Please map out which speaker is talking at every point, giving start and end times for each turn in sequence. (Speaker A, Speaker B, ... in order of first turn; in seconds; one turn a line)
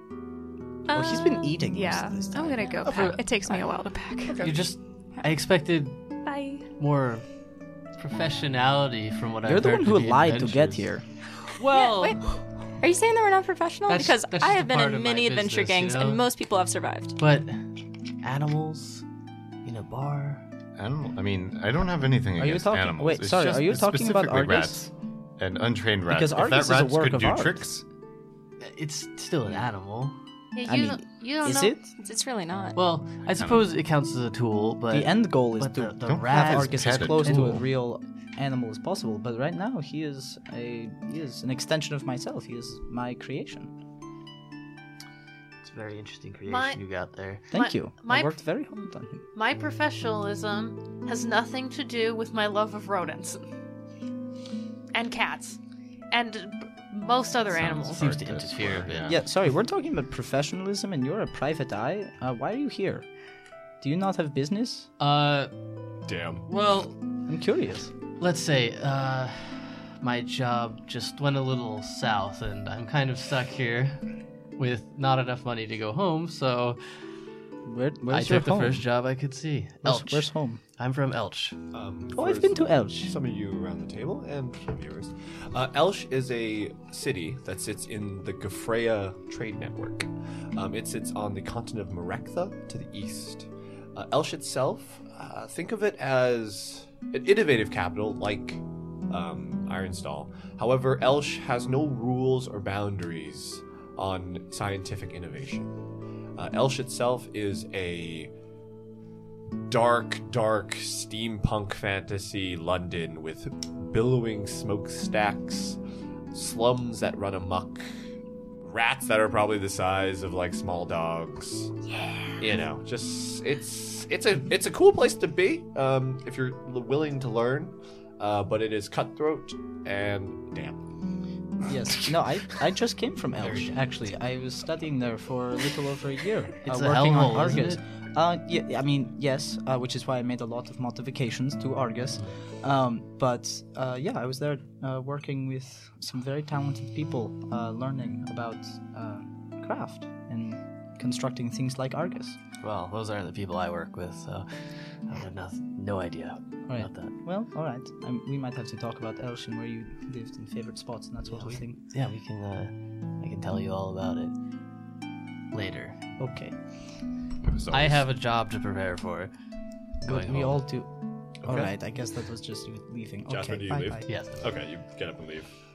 Speaker A: 0.9-4.5
Speaker B: 0.9-2.8
Speaker C: 2.8-3.4
Speaker D: 2.9-3.1
Speaker D: 4.2-4.6
Speaker C: 4.4-6.0
Speaker A: 6.2-6.7
Speaker C: 6.8-7.3
Speaker C: 7.9-10.9
Speaker B: 9.4-11.1
Speaker C: 11.5-12.2
Speaker E: 11.7-12.2
Speaker E: 12.8-17.2
Speaker C: 13.9-16.2
Speaker C: 17.2-17.6
Speaker C: 18.2-19.0
Speaker C: 19.6-20.4
Speaker F: 20.8-27.8
Speaker B: 22.4-24.9
Speaker B: 26.1-27.6
Speaker C: 28.6-30.2
Speaker G: 30.5-31.8
Speaker B: 30.6-31.9
Speaker E: 32.0-32.8
Speaker C: 32.7-37.7
Speaker F: 33.3-33.7
Speaker B: 34.9-43.7
Speaker F: 36.0-37.6
Speaker C: 45.6-47.5
Speaker G: 46.5-46.8
Speaker B: 47.5-49.2
Speaker G: 47.5-48.4
Speaker G: 49.3-53.5
Speaker G: 54.9-55.6
Speaker G: 56.1-58.2
Speaker F: 57.5-59.2
Speaker C: 57.9-59.2
Speaker B: 59.0-63.0
Speaker B: 63.8-64.9
Speaker C: 65.0-65.5
Speaker D: 66.0-66.5
Speaker C: 66.5-67.0
Speaker B: 67.3-67.9
Speaker C: 68.2-76.8
Speaker B: 77.6-78.8
Speaker C: 78.1-81.6
Speaker B: 79.8-80.6
Speaker D: 81.7-105.8
Speaker B: 82.1-83.2
Speaker D: 106.4-108.3
Speaker D: 109.7-115.8
Speaker D: 116.3-117.9
Speaker D: 118.6-121.7
Speaker D: 122.4-130.8
Speaker B: 131.6-152.4
Speaker C: 136.6-137.8
Speaker C: 152.6-157.2
Speaker B: 156.7-161.8
Speaker C: 161.3-164.3
Speaker C: 165.5-166.0
Speaker B: 166.2-166.6
Speaker F: 167.4-168.1
Speaker C: 167.7-169.3
Speaker C: 170.0-170.6
Speaker B: 170.0-170.9
Speaker D: 171.4-171.7
Speaker B: 171.4-174.3
Speaker D: 173.3-175.5
Speaker C: 174.1-174.5